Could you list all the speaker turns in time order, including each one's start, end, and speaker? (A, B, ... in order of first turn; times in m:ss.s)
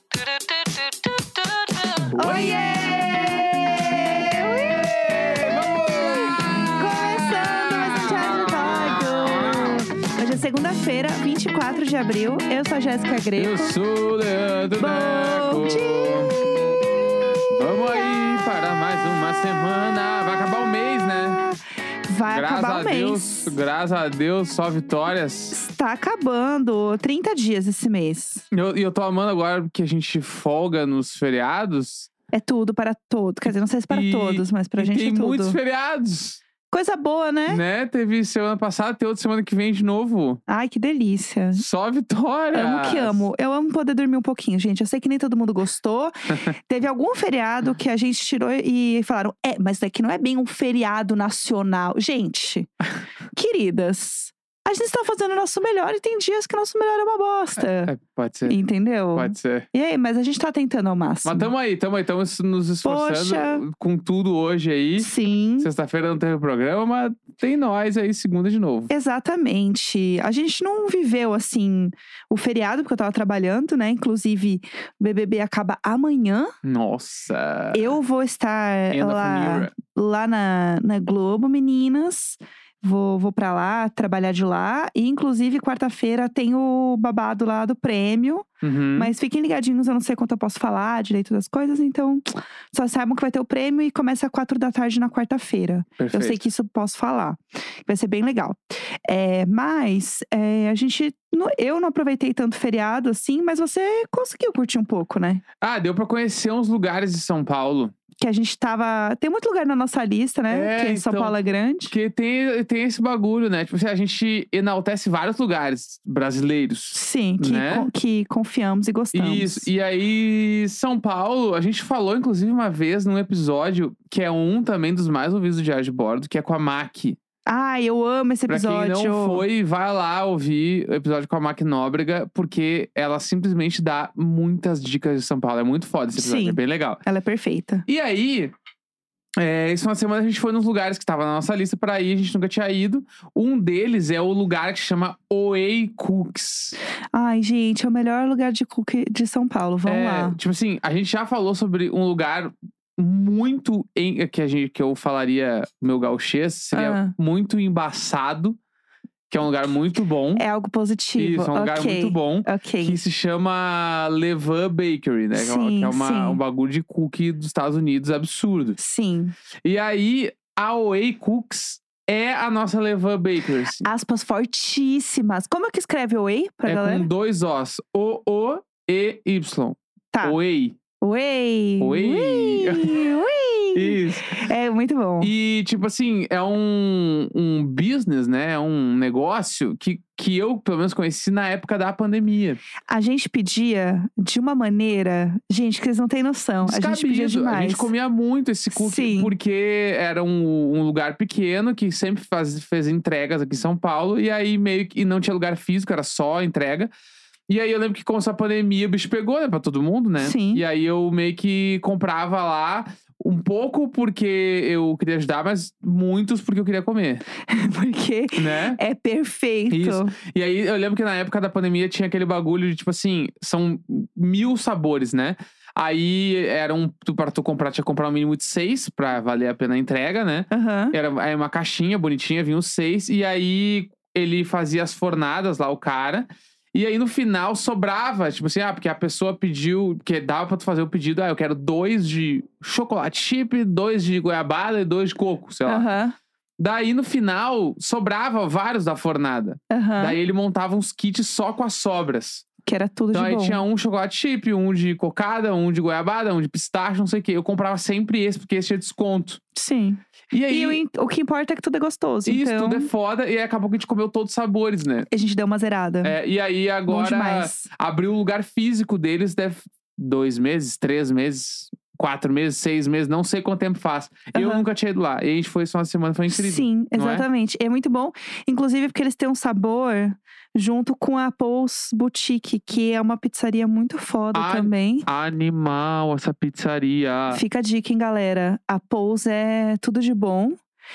0:02.0-0:09.8 A
0:02.1-0:13.7 B
0:13.4-0:16.4 A
0:14.8-0:16.3 B
0:17.5-0:21.4 A
0:21.0-0:23.6 B
0:22.3-0:25.6 A
0:25.5-0:28.4 B
0:28.5-0:32.1 A
0:32.3-0:35.6 B
0:33.4-0:36.4 A
0:36.7-0:37.6 B
0:37.5-0:40.4 A
0:40.5-0:41.6 B
0:41.5-0:43.2 A
0:42.5-0:52.7 B
0:53.3-0:57.9 B
0:57.8-0:58.6 A
0:58.5-1:01.5 B
0:59.1-0:59.6 A
1:01.2-1:08.9 A
1:02.8-1:03.6 B
1:05.0-1:05.7 B
1:08.9-1:16.5 B
1:16.6-1:18.0 A
1:17.7-1:45.4 B
1:18.9-1:19.7 A
1:28.6-1:29.1 A
1:36.0-1:36.4 A
1:45.6-1:47.9 A
1:48.2-1:51.9 B
1:50.5-1:51.4 A
1:51.9-1:57.9 A
1:56.9-1:59.7 B
1:59.1-2:07.2 A
2:07.4-2:09.4 B
2:08.5-2:17.0 A
2:16.1-2:17.8 B
2:17.9-2:18.5 A
2:19.4-2:26.8 A
2:27.1-2:30.4 B
2:29.8-2:38.6 A
2:36.7-2:37.1 B
2:39.3-2:40.4 A
2:40.4-2:43.0 B
2:41.2-2:48.8 A
2:45.3-2:46.4 B
2:48.8-2:49.3 B
2:49.6-2:53.9 A
2:53.8-2:57.1 B
2:56.6-3:00.8 A
3:01.0-3:05.3 B
3:01.8-3:03.1 A
3:03.7-3:04.3 A
3:05.2-3:12.6 A
3:12.9-3:17.9 B
3:16.6-3:26.9 A
3:18.7-3:19.3 B
3:27.5-3:37.2 A
3:30.2-3:30.6 B
3:37.4-3:40.1 B
3:38.4-3:38.8 A
3:39.7-4:05.9 A
3:50.5-3:51.0 B
4:05.6-4:06.2 B
4:06.6-4:12.4 A
4:09.7-4:10.2 B
4:12.6-4:13.6 B
4:13.1-4:19.4 A
4:19.5-4:22.9 B
4:20.3-4:20.8 A
4:22.2-4:25.1 A
4:25.1-4:26.2 B
4:26.0-4:37.2 A
4:26.9-4:27.7 B
4:34.3-4:34.6 B
4:36.3-4:45.1 B
4:44.3-4:47.4 A
4:47.3-4:50.6 B